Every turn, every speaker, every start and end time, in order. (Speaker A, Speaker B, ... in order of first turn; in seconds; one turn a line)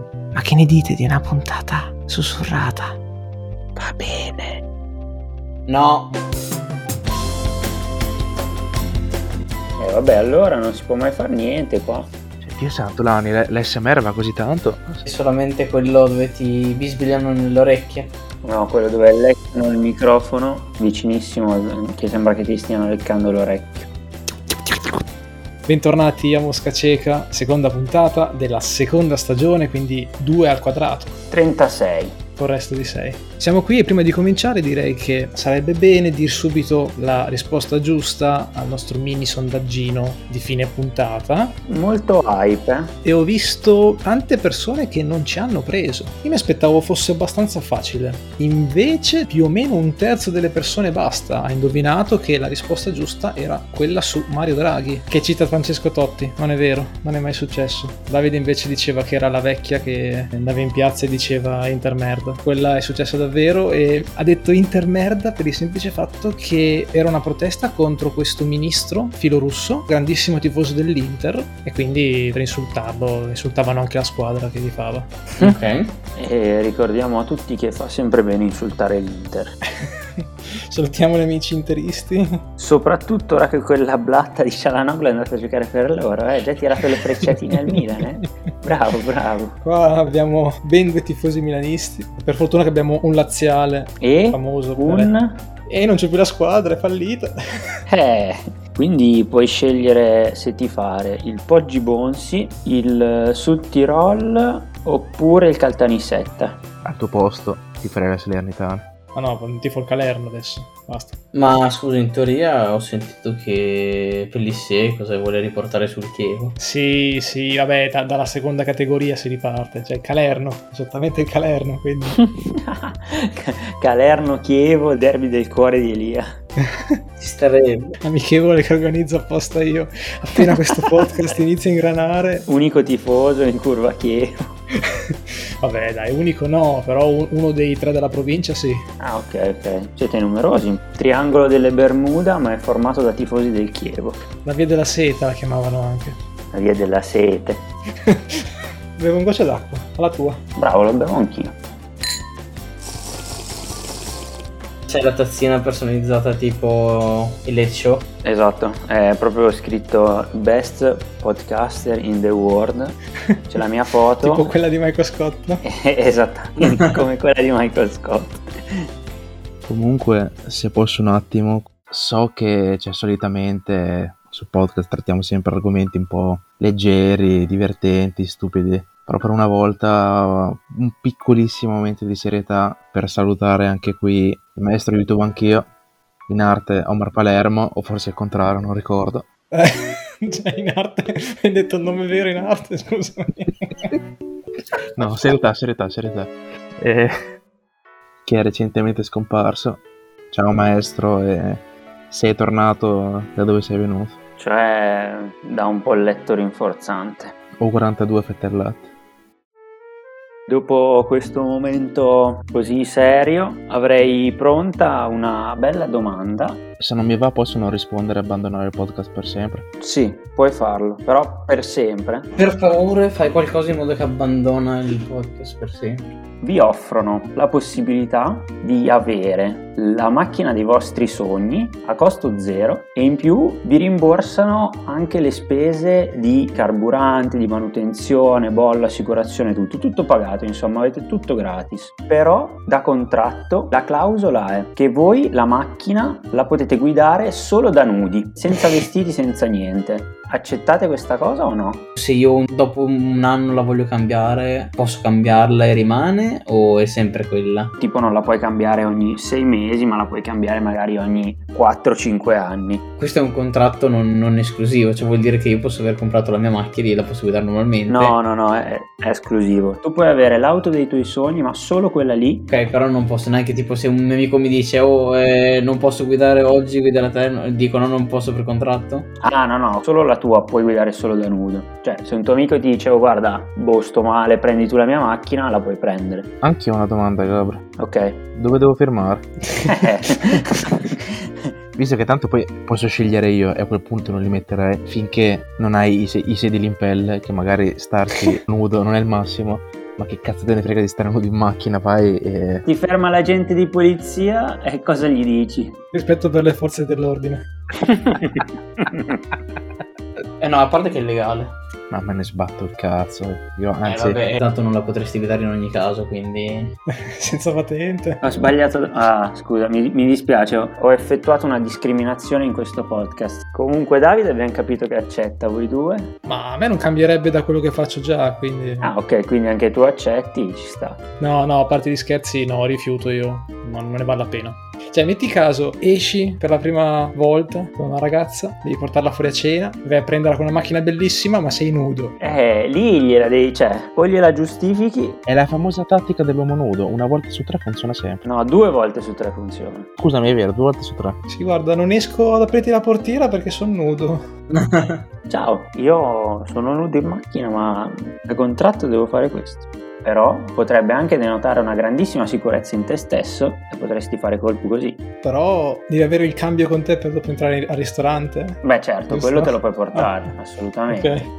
Speaker A: 0.4-2.9
Speaker A: 3.8-4.4
Speaker B: 5.7-6.1
Speaker C: 9.8-12.1
Speaker D: 12.4-15.1
Speaker B: 15.1-18.1
Speaker C: 18.4-23.9
Speaker E: 25.7-31.1
Speaker C: 31.3-32.2
Speaker E: 32.4-41.5
Speaker C: 41.7-43.0
Speaker E: 43.0-75.1
Speaker B: 75.4-75.9
Speaker C: 76.2-79.6
Speaker E: 79.8-82.4
Speaker C: 82.6-89.5
Speaker E: 89.6-95.1
Speaker C: 94.0-95.4
Speaker E: 95.7-97.3
Speaker C: 97.9-106.6
Speaker D: 106.8-108.9
Speaker E: 109.1-111.2
Speaker B: 111.3-116.6
Speaker E: 116.6-122.2
Speaker C: 122.2-126.3
Speaker B: 127.2-127.9
Speaker E: 128.0-132.4
Speaker C: 132.5-134.3
Speaker E: 135.1-138.8
Speaker C: 139.0-144.2
Speaker E: 144.4-146.2
Speaker C: 146.5-147.6
Speaker E: 148.1-148.4
Speaker E: 149.0-150.4
Speaker C: 150.6-151.6
Speaker B: 154.9-158.1
Speaker C: 158.2-163.0
Speaker C: 163.5-164.5
Speaker E: 164.2-165.6
Speaker C: 165.7-168.4
Speaker D: 169.7-185.7
Speaker D: 186.3-189.2
Speaker E: 189.5-193.9
Speaker D: 195.0-197.2
Speaker D: 198.2-204.2
Speaker C: 204.4-207.3
Speaker D: 207.6-208.9
Speaker C: 210.5-216.6
Speaker D: 216.8-219.6
Speaker C: 219.8-222.3
Speaker B: 222.4-226.1
Speaker C: 226.4-251.9
Speaker B: 252.0-257.7
Speaker C: 257.8-262.8
Speaker B: 263.0-268.1
Speaker C: 267.9-272.5
Speaker B: 272.5-279.1
Speaker C: 279.2-286.3
Speaker D: 286.4-287.6
Speaker C: 287.8-288.2
Speaker D: 288.4-289.3
Speaker E: 289.6-290.2
Speaker C: 289.7-291.5
Speaker D: 291.8-302.6
Speaker C: 302.7-305.8
Speaker E: 305.9-307.5
Speaker B: 310.4-311.5
Speaker D: 311.9-314.2
Speaker B: 313.9-316.7
Speaker E: 316.9-318.2
Speaker C: 318.2-326.1
Speaker E: 326.2-328.9
Speaker C: 328.8-331.0
Speaker E: 331.2-342.1
Speaker C: 342.2-345.2
Speaker D: 345.3-348.2
Speaker C: 348.2-349.9
Speaker D: 350.0-351.2
Speaker E: 351.3-354.2
Speaker B: 354.6-355.0
Speaker C: 355.3-365.0
Speaker E: 365.2-368.6
Speaker C: 368.6-371.2
Speaker E: 369.1-370.1
Speaker E: 370.9-371.2